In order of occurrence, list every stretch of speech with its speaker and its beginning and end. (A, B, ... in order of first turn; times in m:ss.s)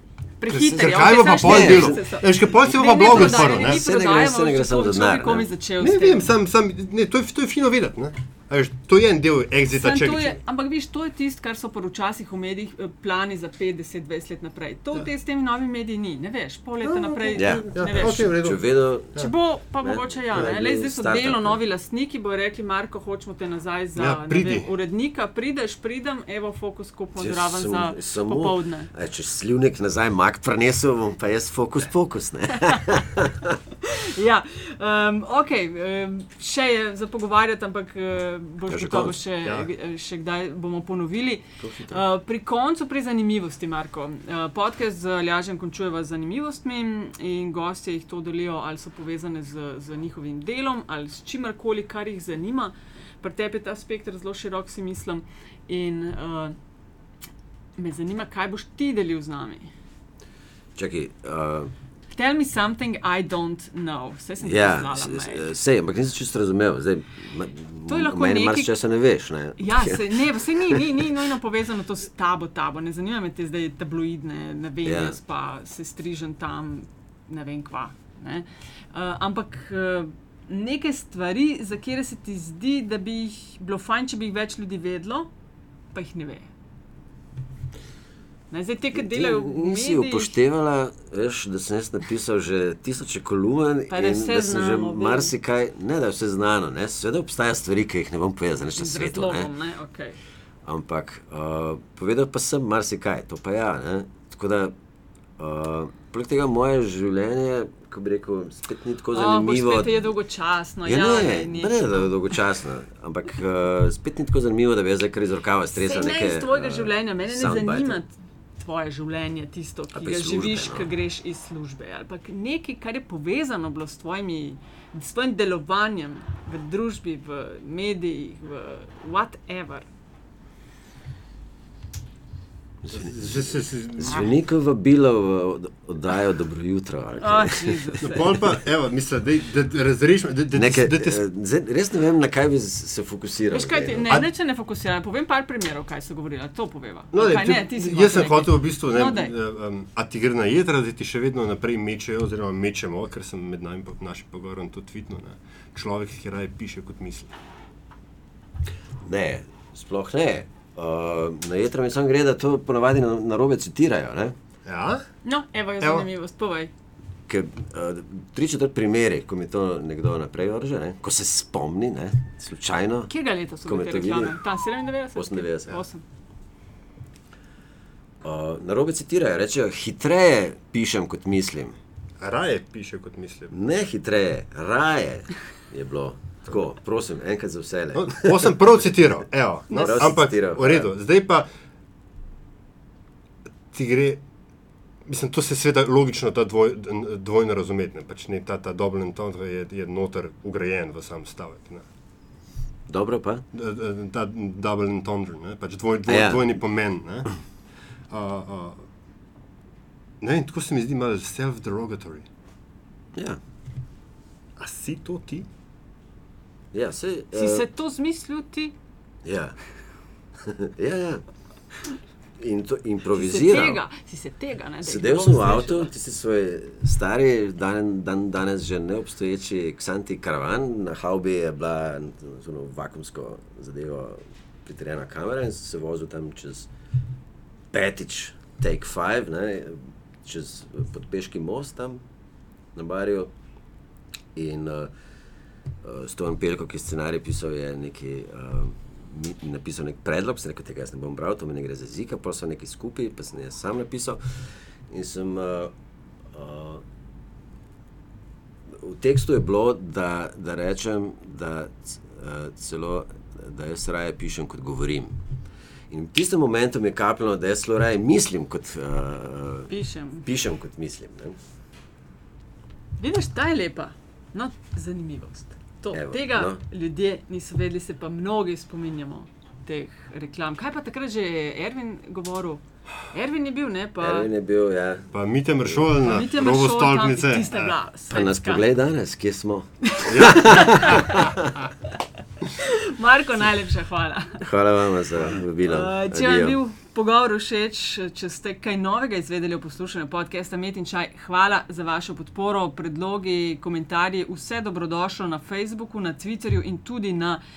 0:00.4-0:06.3 A
0:00.5-0:03.8 B
0:00.6-0:02.0 C
0:03.0-0:05.5 C
0:05.8-0:10.4 B
0:09.7-0:18.4 A
0:16.8-0:18.6 B
0:17.3-0:19.3 C
0:19.2-0:28.9 A
0:19.8-0:21.6 C
0:24.0-0:24.7 B
0:27.2-0:33.6 C
0:33.8-0:56.5 A
0:38.7-0:39.2 C
0:39.4-0:39.7 B
0:41.6-0:42.0 C
0:57.8-0:59.7 A
1:00.7-1:01.7 C
1:02.1-1:05.4 A
1:04.4-1:11.0 C
1:07.9-1:08.7 A
1:09.6-1:25.3 A
1:14.8-1:15.2 C
1:25.9-1:26.5 A
1:28.5-1:30.3 A
1:28.9-1:39.5 C
1:33.9-1:35.3 A
1:38.7-1:40.2 A
1:40.6-1:44.7 C
1:45.4-1:50.1 C
1:49.1-1:52.1 A
1:50.8-1:58.0 C
1:55.7-2:09.9 A
1:59.9-2:00.9 C
2:12.8-2:18.5 C
2:12.9-2:14.3 B
2:17.2-2:18.3 A
2:18.0-2:21.2 B
2:20.5-2:24.1 C
2:23.5-2:29.3 A
2:27.1-2:37.4 B
2:39.0-2:44.3 C
2:44.6-2:45.0 B
2:45.2-2:46.7 A
2:45.8-2:46.1 B
2:47.3-2:53.1 C
2:53.1-2:56.0 A
2:53.6-2:54.4 C
2:55.2-2:55.8 C
2:58.2-3:01.8 C
3:02.2-3:03.5 B
3:03.5-3:08.6 C
3:07.9-3:11.5 B
3:09.7-3:10.0 A
3:09.7-3:10.9 C
3:13.7-3:14.2 B
3:15.0-3:21.8 B
3:22.9-3:23.4 C
3:23.5-3:27.3 B
3:26.1-3:26.5 C
3:28.1-3:28.8 B
3:30.2-3:32.3 B
3:33.1-3:33.4 C
3:34.6-3:35.5 B
3:36.7-3:37.6 C
3:37.3-3:38.7 A
3:39.2-3:39.6 C
3:40.4-3:41.2 C
3:42.4-3:43.8 C
3:43.1-3:45.9 A
3:44.8-3:56.7 C
3:57.7-4:02.0 C
4:02.7-4:03.3 C
4:04.3-4:04.9 C
4:05.8-4:15.7 C
4:16.3-4:16.8 C
4:18.7-4:25.2 C
4:25.9-4:29.7 C
4:29.7-4:30.2 A
4:30.2-4:31.4 C
4:33.0-4:44.3 A
4:35.9-4:36.6 C
4:44.0-4:45.1 C
4:45.1-4:47.7 B
4:46.0-4:48.6 A
4:48.1-4:51.7 C
4:50.0-4:51.2 A
4:50.1-4:51.2 B
4:52.4-4:54.4 A
4:54.4-4:56.6 C
4:55.6-5:07.4 A